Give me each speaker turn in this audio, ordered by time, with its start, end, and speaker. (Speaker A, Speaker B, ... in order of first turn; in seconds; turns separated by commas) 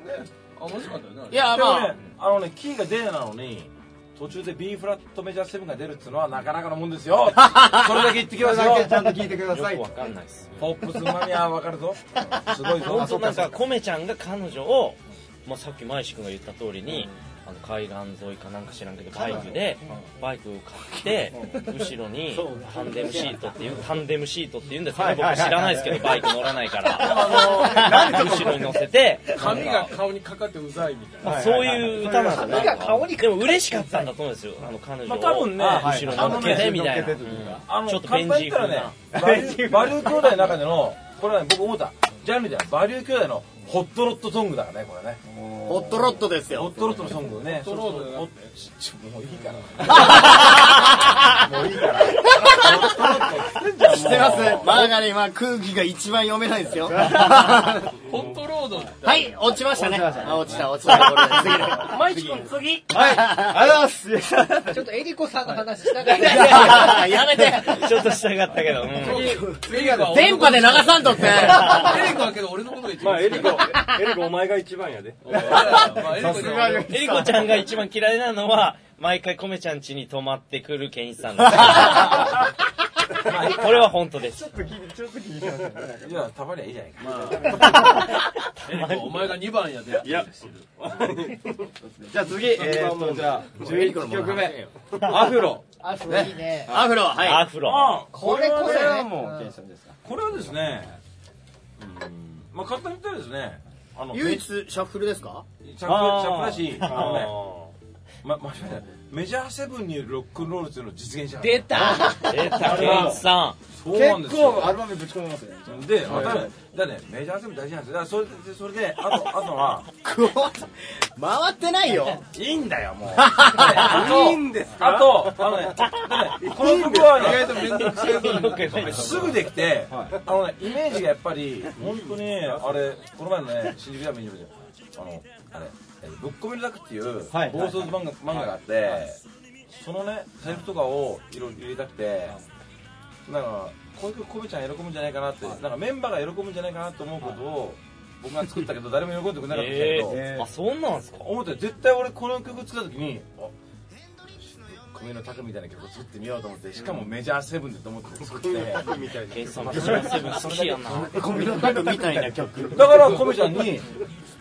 Speaker A: 0.5-1.5, Speaker B: 1.3-2.0, Speaker C: 1.3-9.1, Speaker D: 8.3-10.1, Speaker E: 9.5-10.6, Speaker C: 10.6-13.6, Speaker E: 12.8-29.9, Speaker D: 12.9-13.2, Speaker D: 16.9-17.1, Speaker D: 19.1-20.1, Speaker D: 21.3-21.7, Speaker F: 22.4-23.3, Speaker B: 22.5-23.3, Speaker D: 22.8-23.6, Speaker D: 24.9-26.3, Speaker C: 26.9-28.1, Speaker D: 26.9-28.9, Speaker A: 29.3-31.5, Speaker D: 29.4-29.8, Speaker D: 31.2-32.8, Speaker E: 31.2-38.9, Speaker F: 31.9-34.1, Speaker C: 35.1-37.0, Speaker D: 35.5-37.6, Speaker C: 37.6-45.2, Speaker D: 39.1-40.5, Speaker D: 45.2-46.4, Speaker B: 45.6-47.0, Speaker C: 46.4-54.8, Speaker A: 47.5-48.5, Speaker D: 49.9-50.3, Speaker B: 50.1-50.9, Speaker B: 52.3-53.1, Speaker D: 52.8-54.9, Speaker A: 53.2-53.6, Speaker B: 53.8-57.9, Speaker G: 54.0-54.5, Speaker D: 56.9-57.7, Speaker A: 57.9-59.5, Speaker B: 59.0-62.1, Speaker D: 59.7-64.8, Speaker A: 61.6-62.5, Speaker B: 62.9-63.6, Speaker F: 64.7-67.5, Speaker B: 66.0-67.9, Speaker E: 66.5-69.5, Speaker A: 68.9-73.9, Speaker D: 69.0-70.5, Speaker B: 70.0-72.1, Speaker G: 73.0-76.3, Speaker A: 75.2-76.9, Speaker D: 75.4-77.6, Speaker E: 76.7-82.4, Speaker D: 81.7-82.0, Speaker E: 83.2-84.5, Speaker C: 83.2-83.7, Speaker D: 84.3-86.3, Speaker C: 86.0-87.9, Speaker A: 87.0-88.1, Speaker D: 87.4-88.1, Speaker E: 87.7-89.3, Speaker A: 88.6-91.7, Speaker G: 89.9-90.3, Speaker G: 90.9-91.4, Speaker D: 91.8-97.0, Speaker G: 92.6-93.4, Speaker B: 93.5-95.0, Speaker F: 95.8-96.8, Speaker B: 96.7-97.5, Speaker E: 97.1-98.0, Speaker C: 97.7-99.0, Speaker D: 97.7-100.0, Speaker F: 98.0-99.5, Speaker C: 100.0-101.0, Speaker C: 101.8-104.5, Speaker B: 104.1-105.5, Speaker C: 105.6-107.4, Speaker D: 105.8-107.3, Speaker E: 106.8-107.3, Speaker C: 108.2-112.1, Speaker F: 111.4-112.4, Speaker D: 111.7-113.2, Speaker E: 112.0-113.6, Speaker C: 113.8-114.8, Speaker D: 113.8-116.5, Speaker C: 115.7-119.9, Speaker B: 120.0-122.2, Speaker C: 122.2-127.7, Speaker B: 123.2-124.3, Speaker G: 123.7-125.7, Speaker G: 126.4-128.5, Speaker A: 127.0-129.4, Speaker E: 127.5-129.3, Speaker C: 128.8-139.2, Speaker D: 129.9-130.2, Speaker D: 137.3-138.5, Speaker C: 139.7-142.4, Speaker C: 143.2-150.2, Speaker E: 149.5-151.3, Speaker D: 150.0-150.5, Speaker C: 151.2-153.5, Speaker C: 154.4-161.1, Speaker D: 156.8-157.1, Speaker G: 158.3-160.2, Speaker E: 159.3-161.3, Speaker D: 160.8-163.3, Speaker B: 160.9-163.1, Speaker C: 162.7-164.0